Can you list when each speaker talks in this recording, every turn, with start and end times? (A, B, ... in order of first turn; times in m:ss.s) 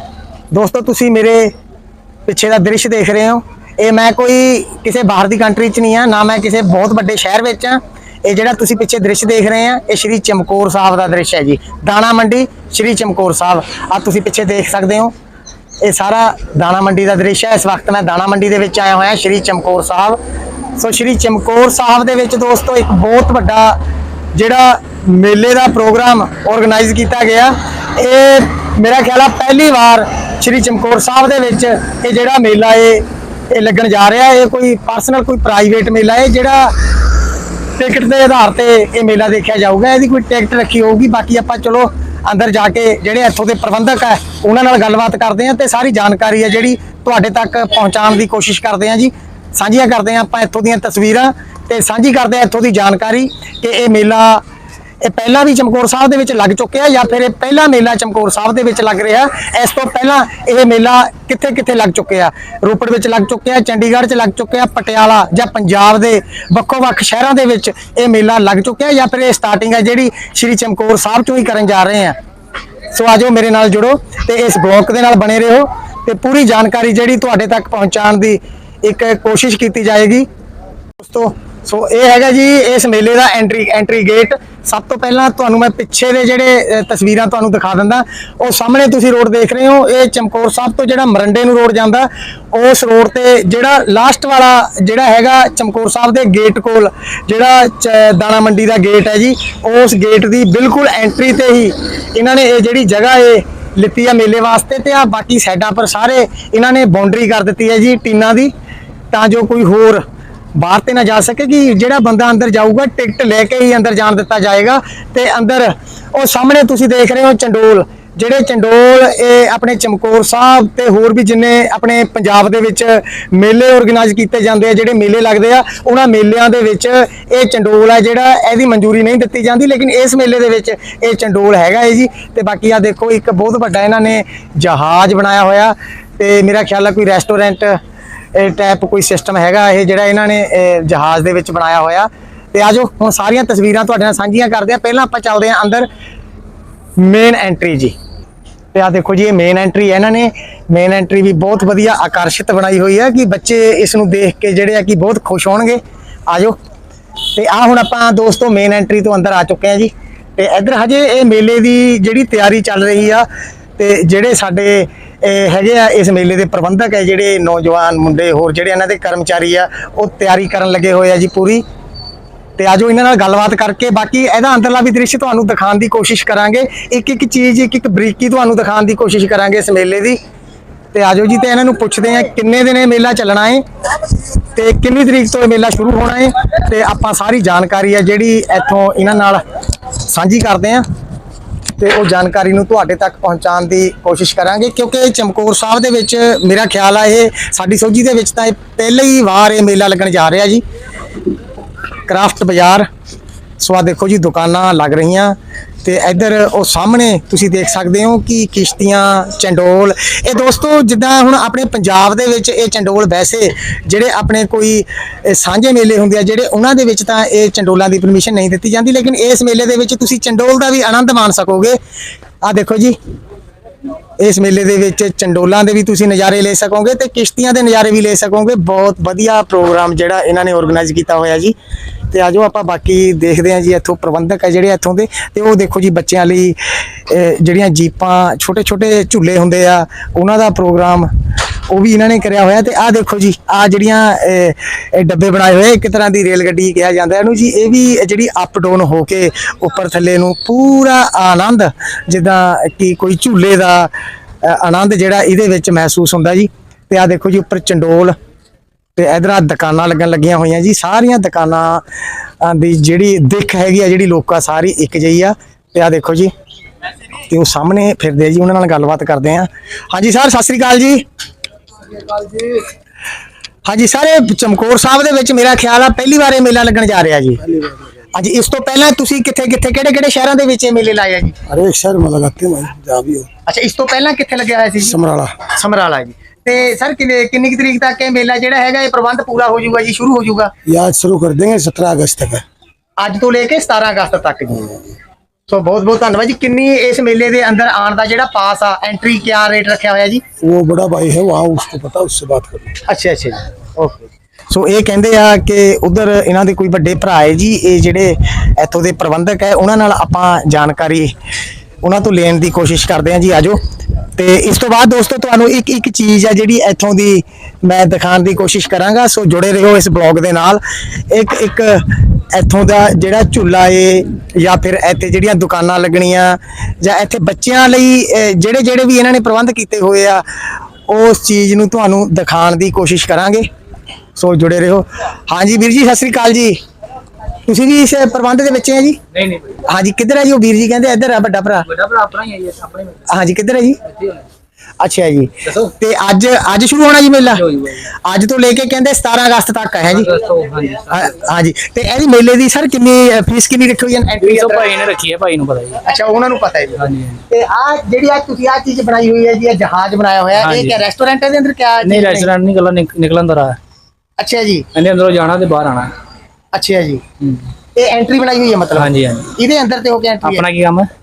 0:00.5-0:01.5 A
0:02.3-0:15.1 A
0:15.8-0:20.2 A
0:20.8-0:23.8 A
0:24.3-0:37.2 A
0:37.8-0:54.4 A
0:55.0-1:12.2 A
1:12.9-1:20.3 A
1:21.0-1:48.5 A
1:49.1-1:50.0 A
1:50.6-2:17.8 A
2:18.4-2:25.9 A
2:27.0-2:28.0 A
2:28.7-2:36.6 A
2:37.3-2:43.3 A
2:43.8-2:51.6 A
2:52.6-3:00.2 A
3:00.9-3:03.6 A
3:04.5-3:09.4 A
3:10.0-3:10.8 A
3:11.8-3:20.6 A
3:22.1-3:22.9 A
3:23.6-3:41.8 A
3:42.4-3:43.0 A
3:44.2-3:51.6 A
3:52.1-4:01.1 A
4:01.7-4:13.9 A
4:14.4-4:18.2 A
4:19.0-4:21.8 A
4:22.4-4:26.3 A
4:27.3-4:31.0 A
4:32.1-4:32.6 A
4:33.7-4:37.4 A
4:38.1-4:41.4 A
4:41.5-4:43.3 B
4:43.5-4:50.5 A
4:44.9-4:45.4 B
4:50.7-4:52.4 B
4:53.0-4:54.8 A
4:55.5-5:00.2 A
5:00.4-5:02.8 B
5:02.9-5:11.1 A
5:11.8-5:13.6 A
5:14.2-5:30.2 A
5:30.9-5:33.5 A
5:34.2-5:36.6 A
5:37.5-5:39.0 A
5:39.1-5:39.6 C
5:39.6-5:41.7 A
5:41.6-5:43.1 C
5:43.1-5:43.8 A
5:43.9-5:44.2 C
5:44.8-5:50.1 A
5:47.3-5:47.9 C
5:49.9-5:51.2 C
5:50.9-5:54.8 A
5:54.2-5:55.8 C
5:55.8-6:02.3 A
5:56.8-5:57.2 C
6:00.4-6:00.8 C
6:01.8-6:03.6 C
6:04.2-6:04.7 A
6:04.7-6:05.9 C
6:06.5-6:07.0 A
6:07.2-6:07.5 C
6:07.8-6:10.4 A
6:08.8-6:09.3 C
6:10.2-6:10.9 C